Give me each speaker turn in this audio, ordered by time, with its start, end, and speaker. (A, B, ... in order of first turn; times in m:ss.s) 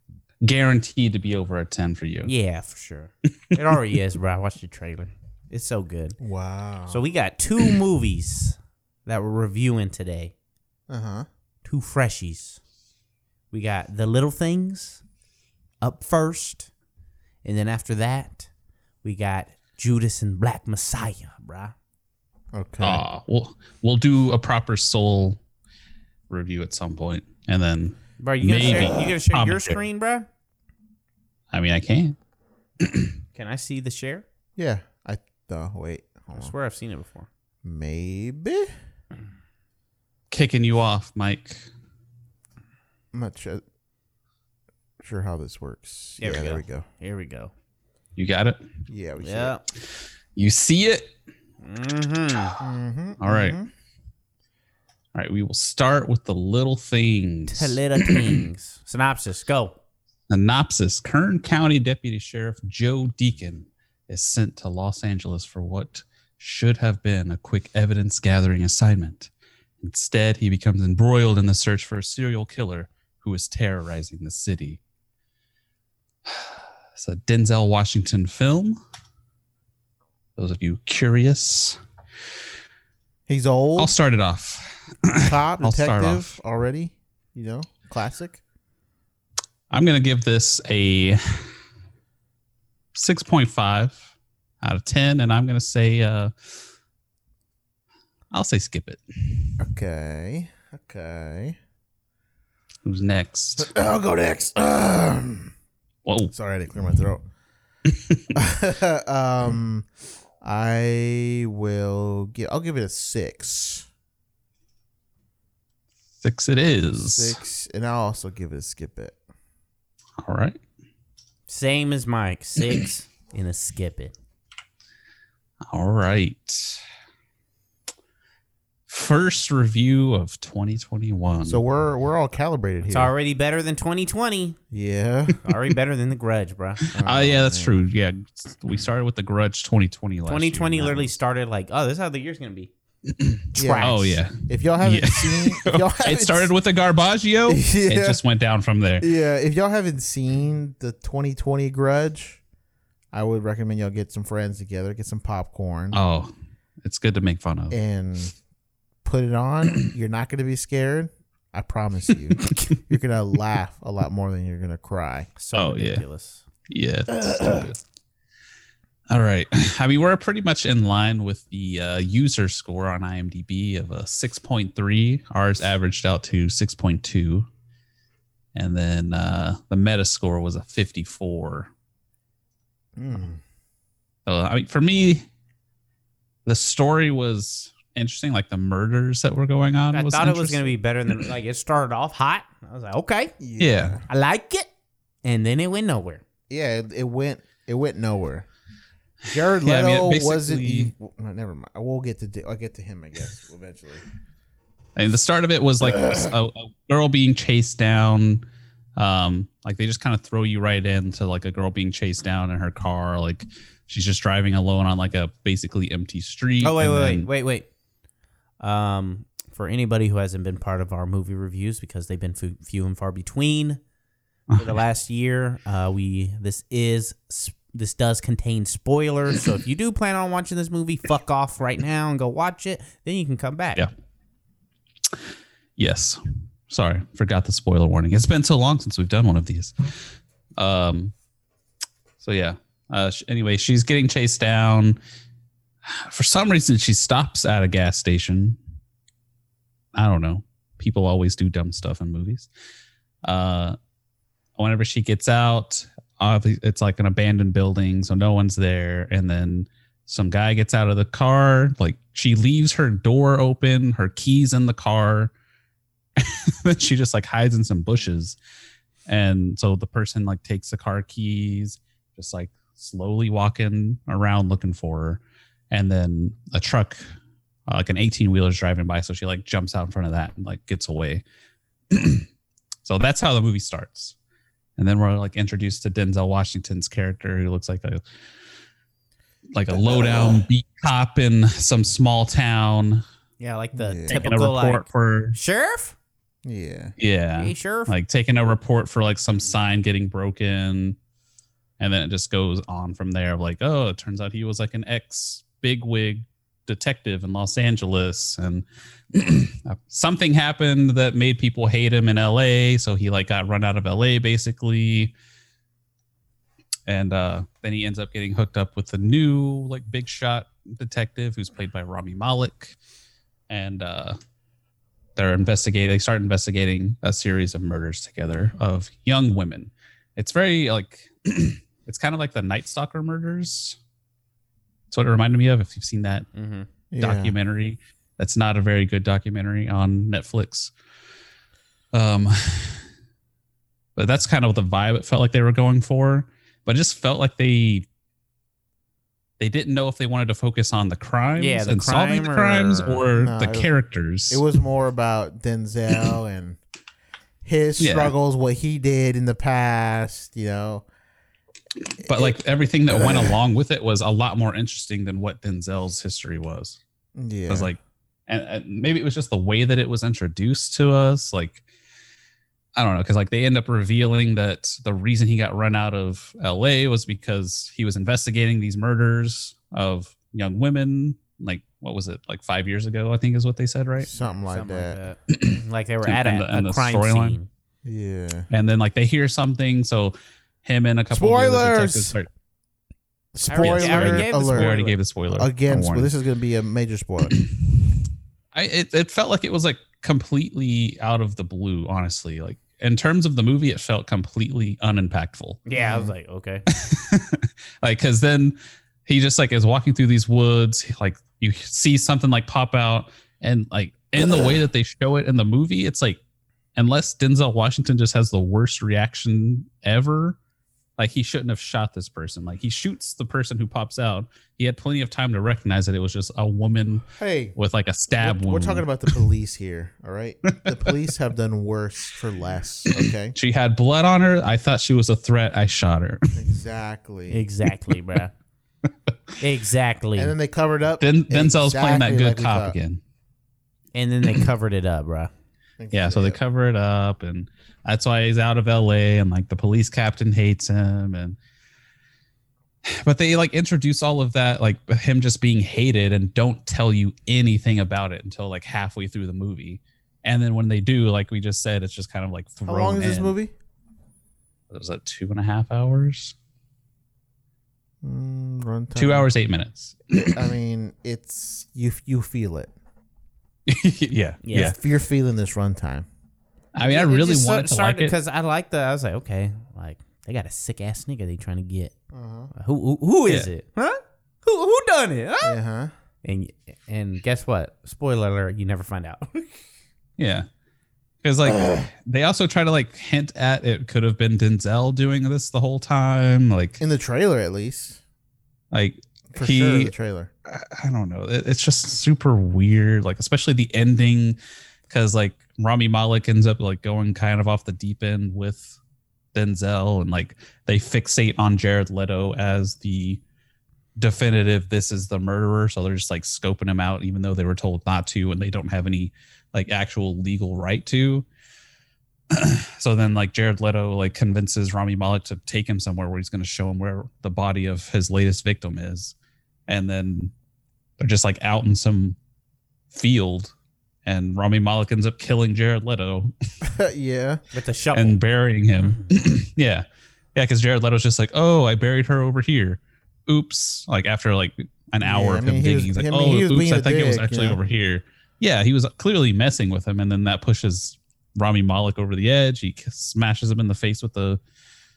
0:00.4-0:02.3 A
0:02.2-0:06.2 B
0:06.2-0:07.0 C
0:06.9-0:10.3 B
0:10.9-0:11.3 C
0:11.6-0:12.6 B
0:13.5-0:15.0 B
0:15.8-0:16.7 B
0:17.4-0:18.5 B
0:19.0-0:21.8 B
0:22.5-0:23.0 C
0:22.8-0:25.4 A
0:26.3-0:29.8 A
0:28.2-0:30.3 B
0:31.5-0:32.2 A
0:32.8-0:33.1 A
0:33.4-0:34.3 B
0:34.6-0:36.5 C
0:36.3-0:37.3 B
0:37.6-0:38.7 C
0:40.3-0:41.7 A
0:43.1-0:43.6 C
0:45.0-0:46.8 C
0:46.2-0:47.5 B
0:48.2-0:48.6 A
0:48.9-0:49.6 C
0:49.2-0:49.6 B
0:50.4-0:51.1 A
0:51.6-0:52.6 B
0:52.6-0:53.7 C
0:53.2-0:53.6 A
0:55.2-0:58.4 A
0:57.5-0:59.8 B
1:00.3-1:09.3 A
1:09.8-1:14.8 A
1:16.3-1:18.8 A
1:20.4-1:21.8 A
1:23.3-1:23.9 C
1:23.8-1:26.3 A
1:25.2-1:28.4 C
1:29.7-1:31.5 A
1:33.0-1:34.1 A
1:34.6-1:36.3 A
1:38.3-1:39.5 A
1:39.6-1:41.6 C
1:42.8-1:43.7 A
1:43.6-1:45.5 C
1:46.0-1:46.3 A
1:46.3-1:47.3 C
1:47.9-1:48.3 A
1:48.3-1:49.9 C
1:50.4-1:53.9 C
1:56.2-1:57.4 A
1:57.0-1:59.2 C
2:00.2-2:00.6 A
2:01.5-2:04.2 B
2:05.7-2:06.8 A
2:08.9-2:11.6 A
2:11.4-2:13.1 C
2:12.8-2:14.6 B
2:14.7-2:15.4 C
2:15.4-2:16.8 B
2:16.9-2:21.1 A
2:16.9-2:17.8 C
2:20.3-2:22.7 B
2:23.1-2:29.1 A
2:23.6-2:26.5 C
2:23.6-2:24.1 B
2:27.5-2:28.2 C
2:29.0-2:32.4 C
2:33.1-2:36.0 C
2:35.9-2:36.3 A
2:36.8-2:37.8 A
2:37.7-2:38.4 C
2:39.0-2:45.3 C
2:45.4-2:46.4 B
2:45.5-2:46.0 A
2:46.7-2:47.8 A
2:47.2-2:47.7 C
2:49.1-2:57.5 A
2:58.6-3:01.7 A
3:03.0-3:03.4 C
3:04.3-3:05.3 A
3:06.5-3:10.7 A
3:09.9-3:13.4 B
3:13.4-3:14.0 C
3:13.6-3:14.0 A
3:14.1-3:14.7 B
3:15.2-3:16.2 B
3:16.5-3:18.5 C
3:19.3-3:24.0 C
3:19.6-3:20.9 A
3:25.0-3:28.4 A
3:25.8-3:26.3 C
3:29.0-3:37.3 A
3:36.6-3:37.7 B
3:38.6-3:43.8 B
3:44.5-3:44.8 A
3:44.6-3:53.9 B
3:55.8-3:59.9 A
4:00.6-4:01.1 A
4:02.2-4:05.0 A
4:05.9-4:08.6 A
4:10.0-4:12.5 A
4:13.2-4:13.8 A
4:14.6-4:25.3 A
4:26.2-4:28.4 A
4:29.1-4:37.0 A
4:37.7-4:41.2 A
4:41.9-4:42.3 A
4:42.8-4:44.2 A
4:44.8-4:48.0 A
4:49.5-4:53.0 A
4:49.7-4:50.4 C
4:53.4-4:56.0 B
4:53.8-4:54.2 C
4:54.1-4:55.4 A
4:56.4-4:56.9 C
4:57.0-5:01.0 A
4:57.4-4:57.9 B
5:01.8-5:15.1 A
5:16.9-5:22.8 A
5:23.5-5:24.2 A
5:25.2-5:33.8 A
5:34.9-5:36.3 A
5:36.4-5:36.7 B
5:36.9-5:37.4 C
5:37.0-5:40.7 A
5:41.9-5:42.8 A
5:44.0-5:47.9 A
5:49.4-5:54.4 A
5:51.4-5:53.0 B
5:53.1-5:53.7 C
5:54.3-5:56.6 C
5:57.4-6:00.9 C
5:57.8-5:58.1 A
6:02.0-6:06.8 A
6:02.1-6:02.4 C
6:02.9-6:03.4 C
6:07.2-6:07.7 C
6:07.5-6:11.6 A
6:12.8-6:24.1 A
6:24.0-6:25.0 C
6:24.5-6:27.5 B
6:25.3-6:27.4 A
6:27.8-6:28.5 C
6:28.5-6:32.3 A
6:31.1-6:32.2 C
6:33.4-6:34.8 C
6:33.5-6:34.9 B
6:33.5-6:36.1 A
6:35.3-6:37.4 C
6:38.5-6:45.6 A
6:45.7-6:46.6 B
6:45.8-6:46.1 C
6:46.7-6:56.2 A
6:56.8-7:00.4 A
7:01.0-7:09.1 A
7:07.2-7:07.6 C
7:08.2-7:13.4 C
7:10.5-7:10.9 A
7:12.9-7:16.4 A
7:16.3-7:17.4 C
7:17.3-7:18.3 B
7:19.4-7:20.3 B
7:20.2-7:22.8 C
7:21.0-7:23.0 A
7:23.9-7:25.3 B
7:25.8-7:26.4 C
7:25.9-7:31.4 A
7:32.8-7:43.4 A
7:42.7-7:43.5 C
7:44.7-7:46.3 A
7:48.0-7:49.3 C
7:49.0-7:50.4 A
7:50.1-7:52.7 C
7:53.7-7:54.8 A
7:54.4-7:54.8 B
7:54.6-7:56.1 C
7:56.7-7:58.2 A
7:56.8-8:01.9 B
8:02.1-8:02.5 C
8:02.5-8:05.6 B
8:05.4-8:05.9 C
8:06.2-8:09.5 B
8:10.2-8:10.5 A
8:11.2-8:16.8 A
8:16.8-8:18.0 C
8:18.7-8:19.9 A
8:19.3-8:20.3 C
8:20.5-8:24.4 A
8:24.9-8:28.8 A
8:29.3-8:33.2 A
8:34.0-8:41.3 A
8:42.3-8:49.1 A
8:49.7-8:50.3 A
8:51.0-8:52.2 A
8:52.9-8:53.5 A
8:54.1-8:56.3 A
8:56.6-8:57.4 C
8:57.5-8:58.2 B
8:57.9-9:14.4 A
9:05.0-9:07.6 C